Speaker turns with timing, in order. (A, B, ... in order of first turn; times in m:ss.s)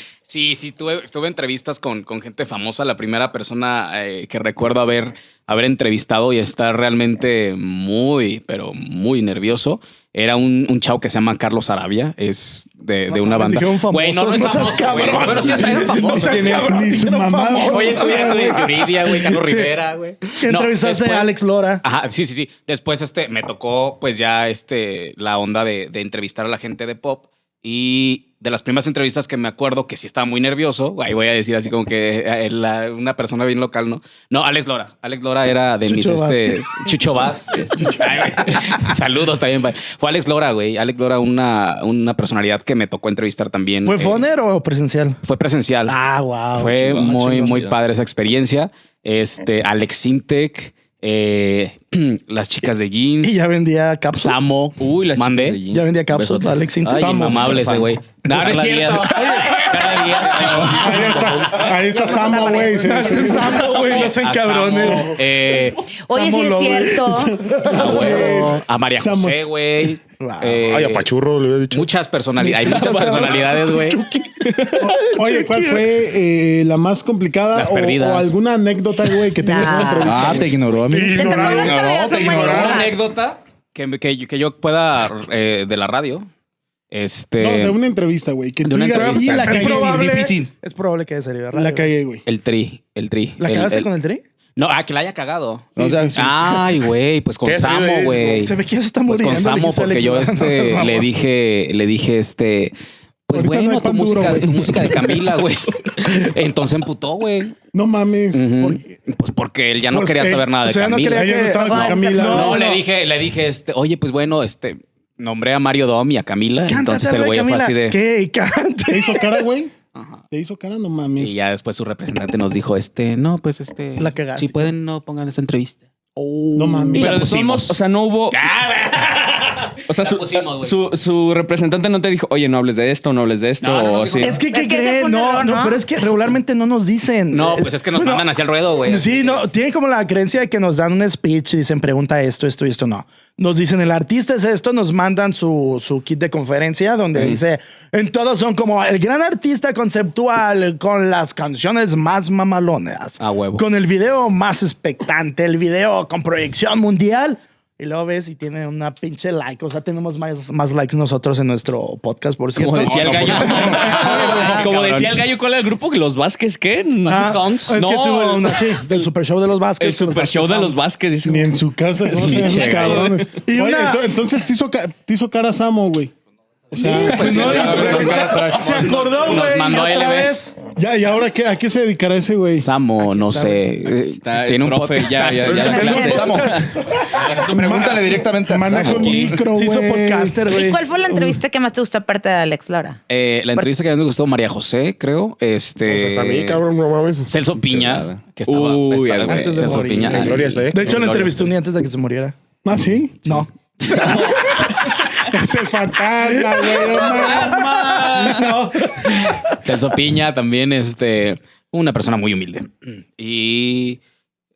0:00.2-0:16.7 A
0:13.1-0:19.8 B
0:15.8-0:18.8 C
0:17.7-0:44.3 A
0:20.3-0:21.8 B
0:35.8-0:36.9 B
0:43.8-0:45.2 B
0:45.2-0:45.9 A
0:45.9-0:47.7 B
0:46.5-0:53.4 A
0:53.2-0:54.4 B
0:54.1-0:55.6 A
0:54.8-1:01.2 D
0:55.7-0:57.6 B
0:56.8-1:01.8 A
0:57.0-0:57.7 C
0:59.1-1:00.1 B
1:00.7-1:03.7 C
1:01.8-1:03.2 E
1:02.7-1:05.4 B
1:03.6-1:05.8 A
1:06.0-1:07.4 E
1:06.1-1:08.5 B
1:07.1-1:09.4 C
1:07.7-1:11.1 A
1:10.2-1:10.6 B
1:10.5-1:11.9 F
1:11.7-1:14.0 A
1:12.4-1:14.0 B
1:12.7-1:13.1 D
1:13.1-1:14.3 F
1:14.4-1:14.9 D
1:14.8-1:15.9 B
1:14.8-1:20.6 C
1:17.5-1:18.3 A
1:19.4-1:20.3 E
1:20.0-1:22.4 G
1:20.9-1:22.8 F
1:21.1-1:23.0 E
1:21.7-1:22.9 D
1:22.4-1:26.3 A
1:26.9-1:27.8 A
1:27.4-1:30.4 C
1:28.6-1:30.1 A
1:29.1-1:31.9 B
1:31.5-1:32.2 C
1:32.2-1:33.9 A
1:33.4-1:34.2 B
1:34.6-1:38.5 A
1:35.8-1:36.4 G
1:35.8-1:36.5 C
1:37.4-1:38.5 F
1:38.4-1:41.1 B
1:39.1-1:42.7 A
1:43.3-1:47.6 A
1:43.3-1:45.2 C
1:47.7-1:48.8 C
1:48.3-1:51.5 A
1:49.9-1:50.5 C
1:50.6-1:52.8 B
1:51.1-1:52.6 C
1:51.5-1:52.3 E
1:52.2-1:58.0 A
1:56.7-1:59.4 B
1:58.9-1:59.7 C
1:59.9-2:00.2 A
2:00.3-2:01.3 C
2:01.2-2:05.8 A
2:04.0-2:04.7 B
2:06.2-2:07.0 B
2:06.5-2:07.2 C
2:06.9-2:08.4 D
2:07.0-2:07.8 A
2:08.3-2:10.7 A
2:09.9-2:14.4 D
2:13.6-2:14.4 A
2:14.2-2:18.3 B
2:14.4-2:15.8 E
2:17.3-2:19.5 A
2:18.8-2:44.7 B
2:33.2-2:33.6 A
2:42.6-2:49.1 D
2:42.8-2:45.2 A
2:47.0-2:47.8 A
2:47.1-2:50.8 B
2:49.8-2:53.2 D
2:51.2-2:56.1 C
2:52.2-2:53.2 A
2:53.4-2:54.0 B
2:56.7-2:57.7 C
2:56.8-3:00.4 A
2:57.0-2:59.2 D
2:57.1-3:00.5 B
2:57.6-2:58.8 G
3:00.8-3:02.7 C
3:02.6-3:06.3 A
3:04.0-3:06.7 D
3:05.6-3:06.2 E
3:05.7-3:06.6 G
3:05.8-3:06.7 B
3:07.1-3:08.2 A
3:07.4-3:09.4 G
3:07.6-3:10.4 C
3:08.8-3:09.4 D
3:09.5-3:10.8 B
3:10.4-3:13.0 E
3:13.1-3:16.6 A
3:15.8-3:17.3 F
3:17.3-3:21.5 A
3:17.6-3:20.4 D
3:19.2-3:22.3 B
3:20.0-3:21.0 F
3:22.6-3:23.2 C
3:23.2-3:24.4 B
3:23.3-3:24.4 A
3:23.9-3:24.3 D
3:24.9-3:27.7 C
3:26.3-3:29.6 B
3:26.8-3:28.5 D
3:29.6-3:34.0 A